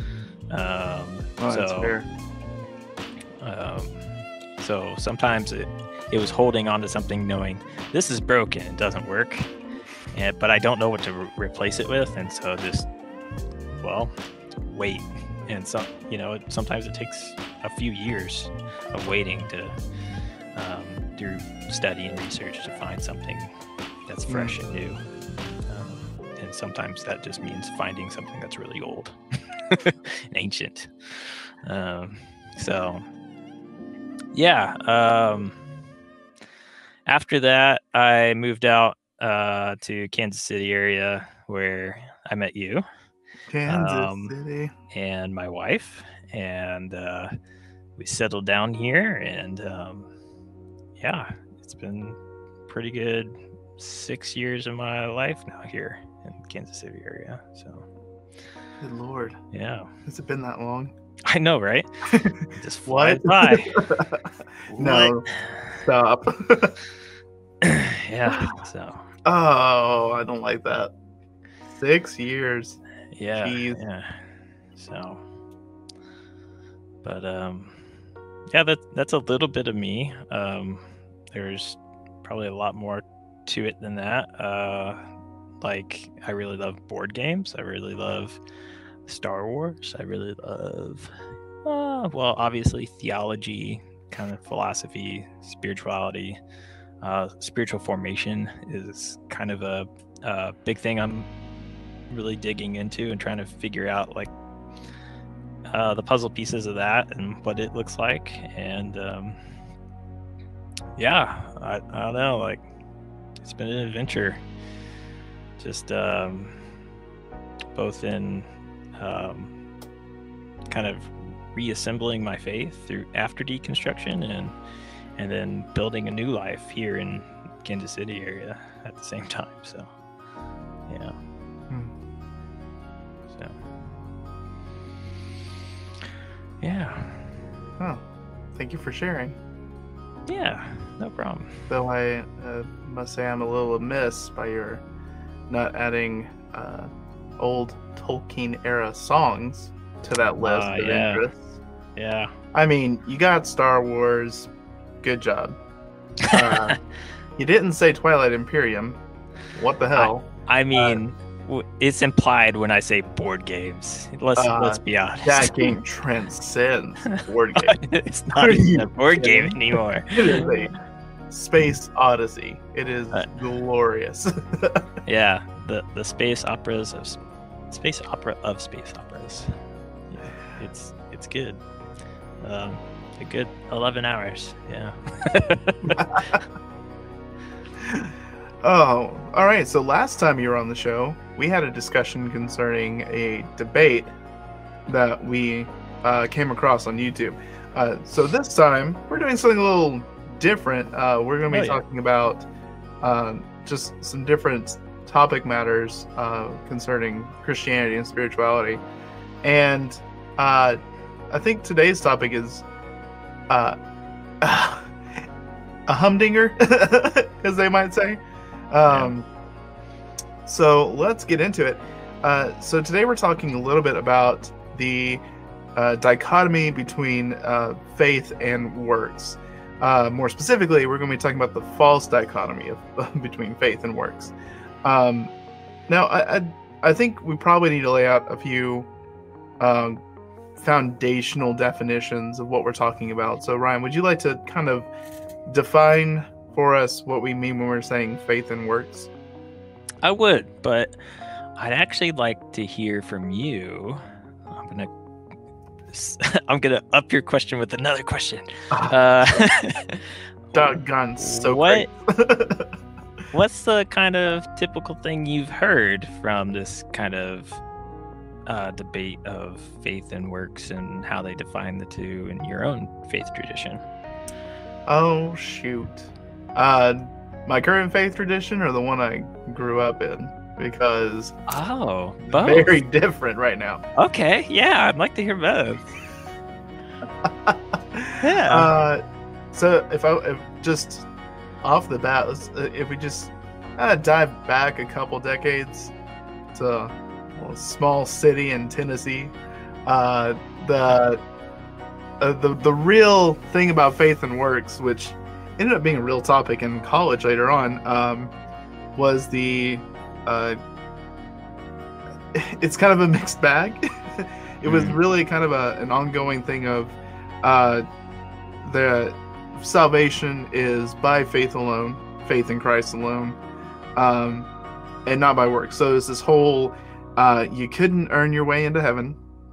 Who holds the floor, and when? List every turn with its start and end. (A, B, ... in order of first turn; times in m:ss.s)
0:00.5-0:01.9 A
0:01.4-0:02.1 B
0:03.4-0:09.5 A
0:10.1-0:12.9 A
0:13.8-0:14.1 A
0:14.6-0:19.8 A
0:20.5-0:23.5 A
0:24.1-0:25.0 A
0:24.3-0:24.5 B
0:25.7-0:33.0 A
0:34.3-0:35.6 A
0:37.0-0:42.8 A
0:43.5-0:44.7 B
0:43.7-0:44.3 A
0:44.9-0:47.3 A
0:48.0-0:50.1 A
0:51.0-0:52.2 A
0:52.7-0:57.9 A
0:58.8-0:59.4 B
0:59.5-0:59.9 A
1:00.0-1:00.9 B
1:01.2-1:01.9 A
1:02.1-1:04.2 B
1:02.6-1:03.8 A
1:04.7-1:05.8 A
1:04.7-1:05.2 B
1:05.8-1:06.8 B
1:07.6-1:09.0 A
1:09.2-1:10.9 B
1:11.7-1:12.8 B
1:13.1-1:14.2 A
1:13.4-1:13.8 B
1:14.8-1:15.2 A
1:17.0-1:17.8 A
1:18.5-1:25.0 A
1:25.6-1:28.4 A
1:29.0-1:31.1 A
1:31.6-1:36.4 A
1:37.0-1:41.3 A
1:42.1-1:44.3 A
1:45.7-1:49.4 A
1:51.0-1:52.7 A
1:53.4-1:54.4 A
1:55.6-1:56.6 A
1:57.7-1:59.5 A
2:00.7-2:04.6 A
2:05.2-2:09.9 A
2:10.9-2:11.1 A
2:13.3-2:13.6 A
2:16.6-2:17.4 A
2:18.5-2:19.4 B
2:20.3-2:21.5 A
2:21.7-2:24.8 B
2:25.5-2:31.6 B
2:30.4-2:31.2 A
2:32.0-2:32.3 A
2:32.5-2:34.5 B
2:35.0-2:35.6 B
2:36.3-2:36.8 A
2:36.3-2:36.8 B
2:37.4-2:39.0 B
2:39.5-2:41.0 B
2:40.0-2:45.8 A
2:44.4-2:47.8 B
2:47.6-2:50.7 A
2:48.4-2:50.7 B
2:51.3-2:54.9 B
2:55.0-2:57.2 A
2:57.7-2:59.5 A
3:00.1-3:01.6 A
3:02.4-3:06.4 A
3:05.9-3:06.4 B
3:07.8-3:08.1 B
3:08.6-3:14.1 B
3:14.9-3:22.5 B
3:21.5-3:21.8 A
3:23.0-3:28.8 B
3:29.4-3:30.8 B
3:31.3-3:32.6 B
3:33.5-3:33.8 B
3:34.4-3:34.9 B
3:35.9-3:39.2 B
3:38.9-3:39.1 A
3:40.4-3:45.2 B
3:45.8-3:55.3 B
3:55.9-3:58.9 B
3:59.6-4:00.0 B
4:00.6-4:04.9 B
4:05.5-4:09.1 B
4:10.0-4:11.0 A
4:11.6-4:14.9 A
4:15.9-4:21.9 A
4:18.7-4:19.4 B
4:20.5-4:22.7 B
4:23.3-4:27.6 A
4:28.4-4:33.8 A
4:34.9-4:41.3 B
4:41.5-4:42.8 A
4:42.3-4:43.8 B
4:44.0-4:45.9 A
4:47.2-4:49.0 B
4:48.2-4:48.7 A
4:49.5-4:51.1 B
4:51.6-4:55.9 B
4:56.5-4:59.4 B
4:59.9-5:01.2 B
5:02.2-5:08.3 B
5:09.0-5:10.6 B
5:12.3-5:17.8 B
5:14.6-5:15.0 A
5:18.6-5:23.4 B
5:24.0-5:24.5 B
5:25.0-5:29.2 B